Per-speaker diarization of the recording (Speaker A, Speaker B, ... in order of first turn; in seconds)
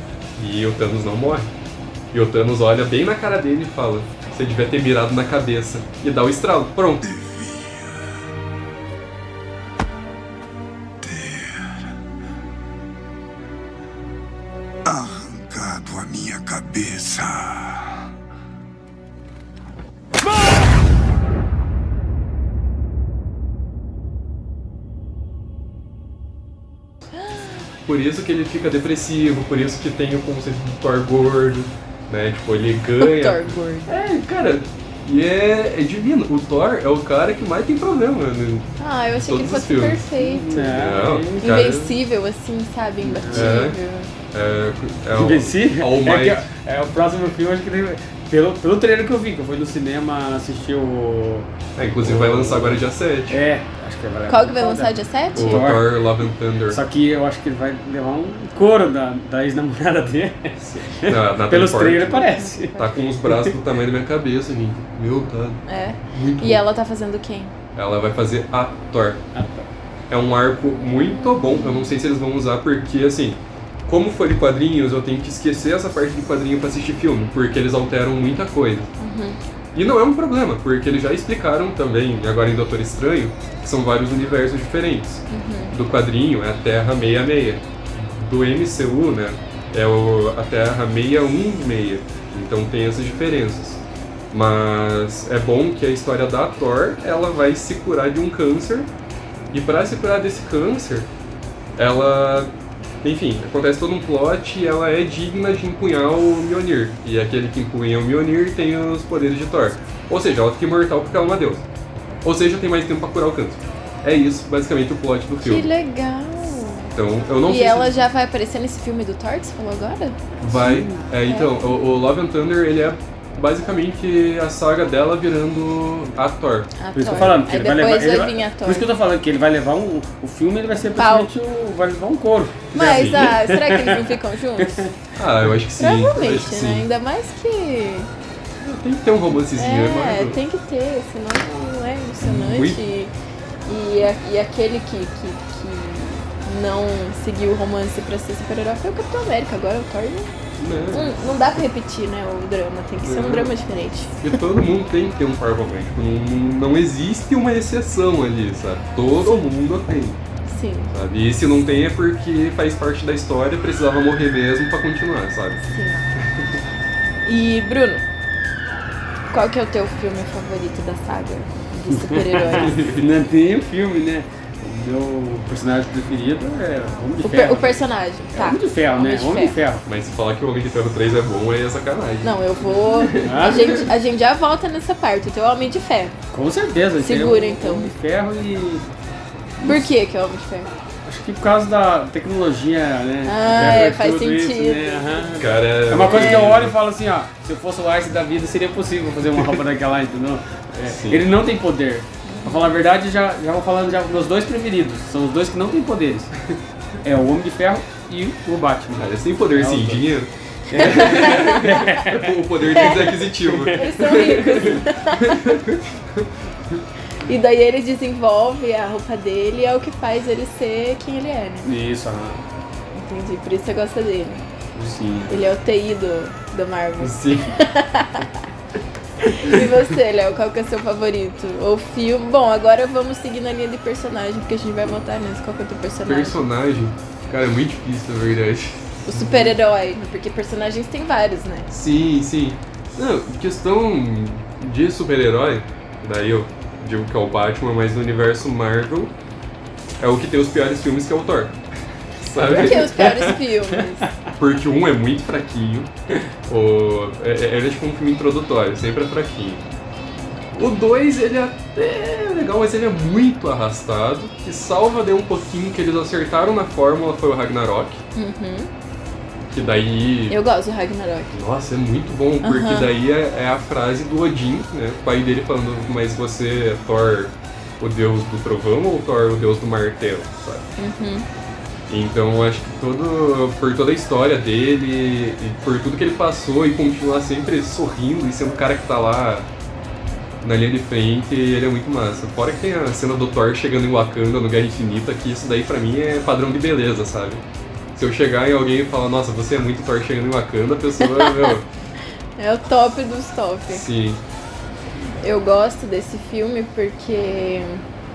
Speaker A: 0.4-1.5, 2.1-7.1, 27.9-40.0, 40.6-42.0, 43.3-43.8, 44.3-46.5, 51.8-53.4, 55.4-56.8, 60.6-66.6, 67.8-69.2, 70.1-78.9, 79.8-98.9, 99.5-101.1, 101.8-102.5, 103.0-111.6, 112.2-115.7, 117.0-118.0, 120.4-126.7, 132.8-133.3, 135.2-136.9, 138.6-140.4, 142.2-142.8, 150.6-151.6, 153.0-153.5, 154.2-160.2, 160.9-165.6, 172.6-173.0, 179.9-182.3, 195.4-196.8, 200.8-201.3, 208.9-216.3, 227.0-227.5, 236.1-239.6, 241.7-249.1, 250.0-251.6, 252.2-253.4, 254.3-255.9, 256.5-259.6, 260.5-268.0, 269.5-270.4, 271.3-280.7, 281.9-289.5, 290.4-297.4, 297.9-301.7, 303.7-304.2
Speaker B: 7.0-8.2, 11.0-11.9, 14.9-18.0
Speaker C: 33.0-33.9, 38.8-40.8, 41.4-44.1, 54.3-55.8, 62.1-63.0, 65.7-67.5, 70.9-72.0, 79.0-79.4, 85.3-85.8, 115.4-120.2, 121.3-121.5, 126.8-128.9, 130.9-131.3, 132.7-134.9, 135.8-138.1, 139.5-143.1, 143.7-150.3, 150.9-154.4, 160.5-160.9, 165.7-166.0, 167.2-168.0, 169.3-172.8, 177.2-179.6, 182.2-186.2, 187.0-187.9, 189.6-190.7, 193.2-195.3, 195.9-196.6, 202.3-202.7, 210.8-211.8, 212.8-213.2, 213.7-215.6, 217.3-221.7, 222.9-224.4, 225.3-228.4, 229.3-236.4, 239.1-241.7, 252.4-254.1, 268.1-268.7, 270.3-271.4, 272.4-272.9, 280.8-281.3, 301.0-301.5, 302.4-303.9, 305.2-307.8
Speaker D: 33.9-34.2, 40.2-41.5, 43.0-43.7, 45.1-56.1, 56.7-63.5, 69.3-69.7, 120.4-121.0, 126.9-134.9, 171.9-179.8, 183.2-183.9, 186.3-188.9, 189.6-189.9, 191.1-206.3, 207.0-210.1, 210.7-214.4, 221.6-222.4, 224.8-225.4, 252.4-254.3